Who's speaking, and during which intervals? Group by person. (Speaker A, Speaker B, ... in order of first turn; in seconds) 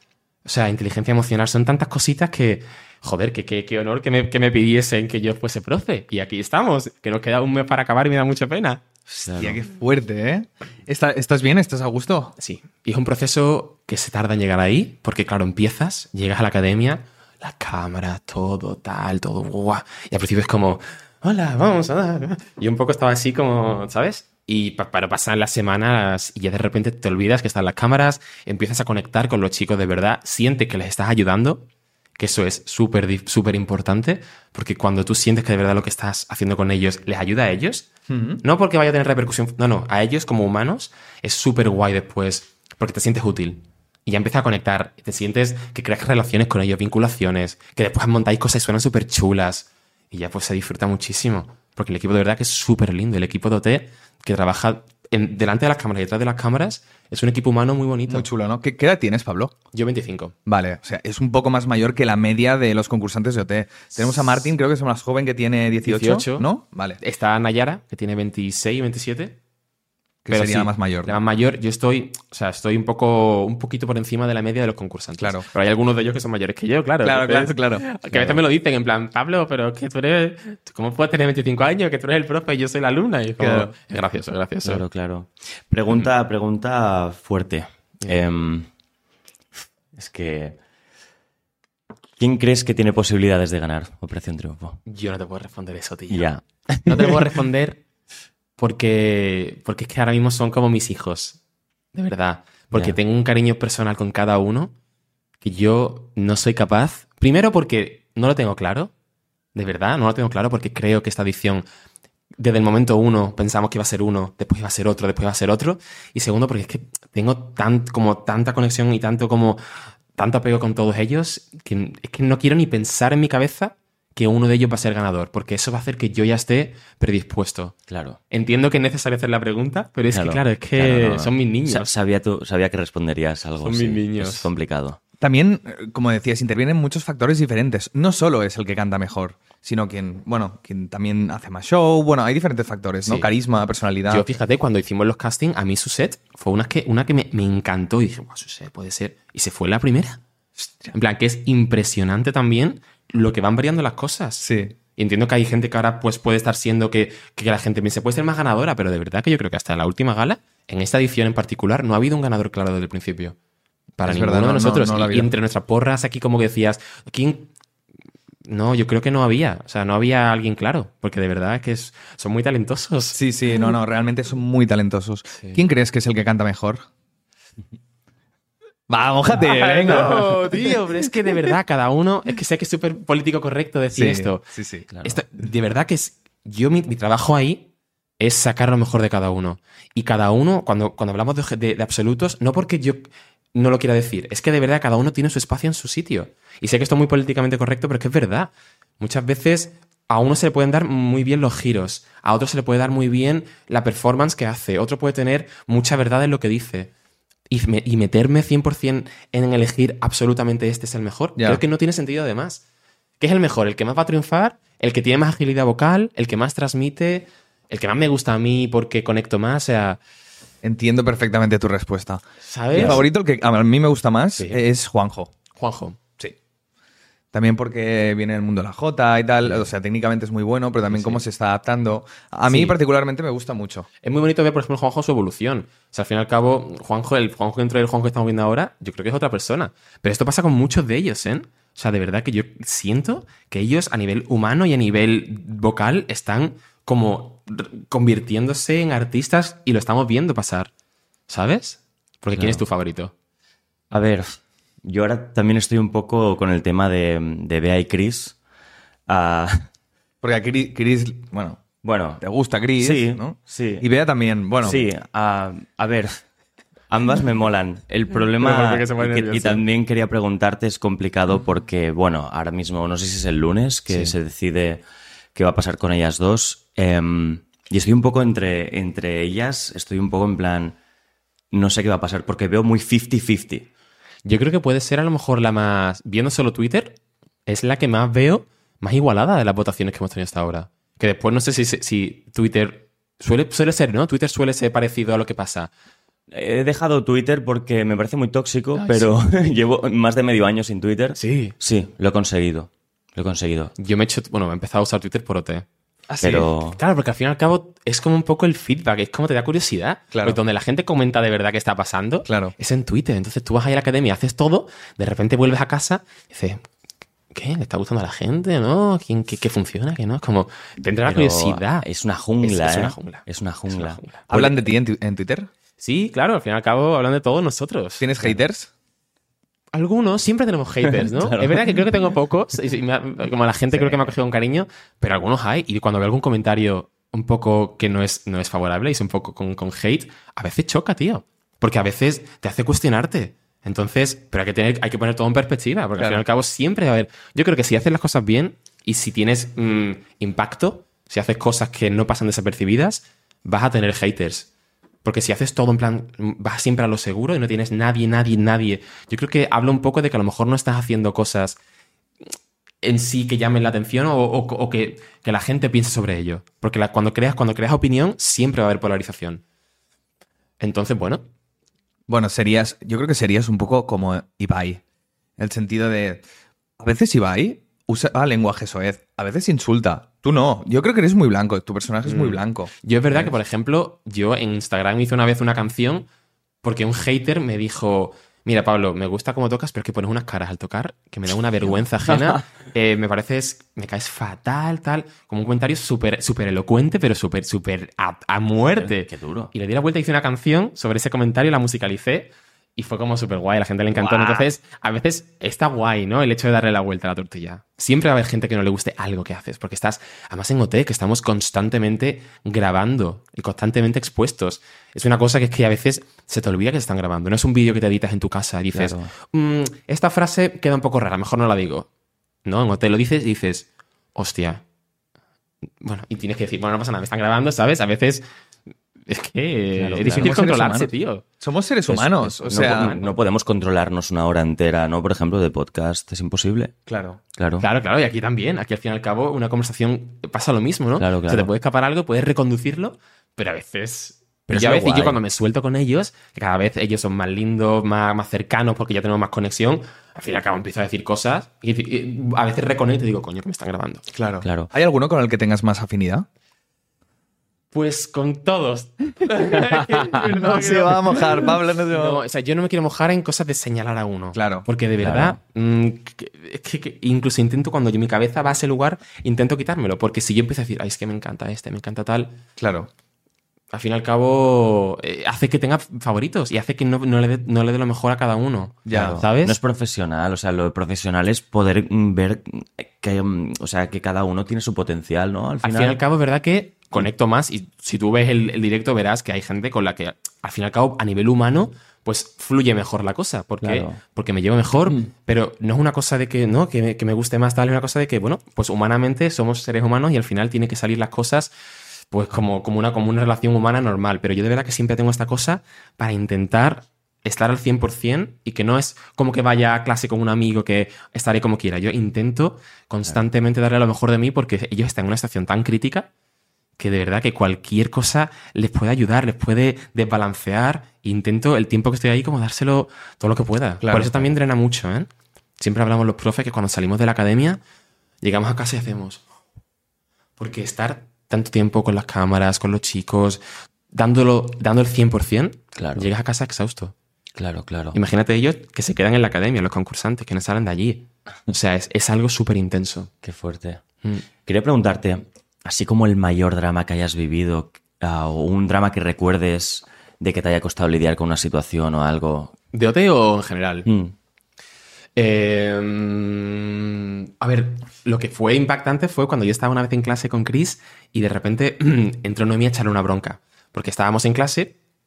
Speaker A: 0.4-8.8, 12.4-31.7, 32.2-37.9, 38.4-58.3, 59.7-60.3, 64.0-64.5, 65.8-66.5, 67.0-69.4, 70.3-84.8, 94.8-96.3, 96.8-97.8, 98.6-101.4, 101.9-104.7, 105.4-108.9, 109.5-111.7, 112.4-119.6, 120.2-127.7, 128.3-131.9, 133.6-134.5, 144.1-150.2, 150.9-163.3, 164.0-167.5, 168.4-173.2, 179.3-184.5, 185.0-187.7, 188.2-206.9, 207.5-212.6, 213.2-220.0, 222.4-223.1, 225.6-226.0, 230.9-231.2, 232.5-232.8, 234.0-250.7, 251.3-253.1, 268.2-269.6, 273.9-274.1, 284.2-295.7, 298.8-299.2, 301.2-301.5, 303.8-305.6, 306.8-316.6, 317.3-321.9, 322.4-324.3, 325.8-328.1, 329.7-354.5, 355.0-361.6, 362.8-369.4, 370.6-371.2, 382.0-386.1, 386.6-421.9, 422.4-424.6, 425.8-428.2, 429.1-431.2, 432.1-433.1, 437.6-454.1, 457.7-472.4, 473.7-479.6, 485.6-501.5, 502.1-516.1, 516.8-527.6, 528.2-529.2, 530.4-536.9, 537.9-543.1, 552.7-553.9, 555.1-564.7
Speaker B: 9.2-9.6, 78.1-78.4, 84.6-88.7, 89.9-90.6, 92.2-94.8, 96.1-97.2, 102.7-103.0, 127.9-128.2, 130.1-135.0, 184.9-185.2, 252.3-252.6, 253.9-258.4, 259.1-259.7, 261.8-262.2, 262.8-263.8, 264.6-266.2, 266.9-274.8, 275.3-280.8, 281.5-283.7, 296.3-303.7, 306.2-306.8, 321.0-324.5, 330.9-331.8, 398.8-399.5, 403.9-404.4, 418.7-419.1, 429.7-430.3, 431.9-436.7, 437.4-437.6, 441.0-441.5, 444.5-445.2, 454.4-454.7, 465.0-465.4, 478.9-486.0, 493.6-494.0, 535.8-536.1, 537.4-538.0, 543.2-543.8, 544.4-552.5, 553.9-554.1
Speaker C: 9.2-12.3, 38.1-38.4, 58.1-59.5, 60.5-67.0, 70.2-71.2, 75.2-75.5, 77.0-77.8, 83.4-83.7, 135.2-144.2, 154.4-154.8, 164.0-165.3, 173.1-176.9, 178.9-180.6, 183.9-184.9, 211.4-211.6, 220.6-225.3, 227.3-233.9, 260.2-261.6, 262.2-264.8, 306.1-306.5, 310.1-310.4, 312.2-312.5, 324.3-325.5, 328.0-328.7, 346.0-346.2, 372.1-374.8, 375.4-376.2, 376.8-383.4, 430.0-433.0, 436.9-437.2, 454.1-456.2, 459.3-462.2, 464.3-464.6, 472.6-472.9, 478.9-479.2, 523.8-524.3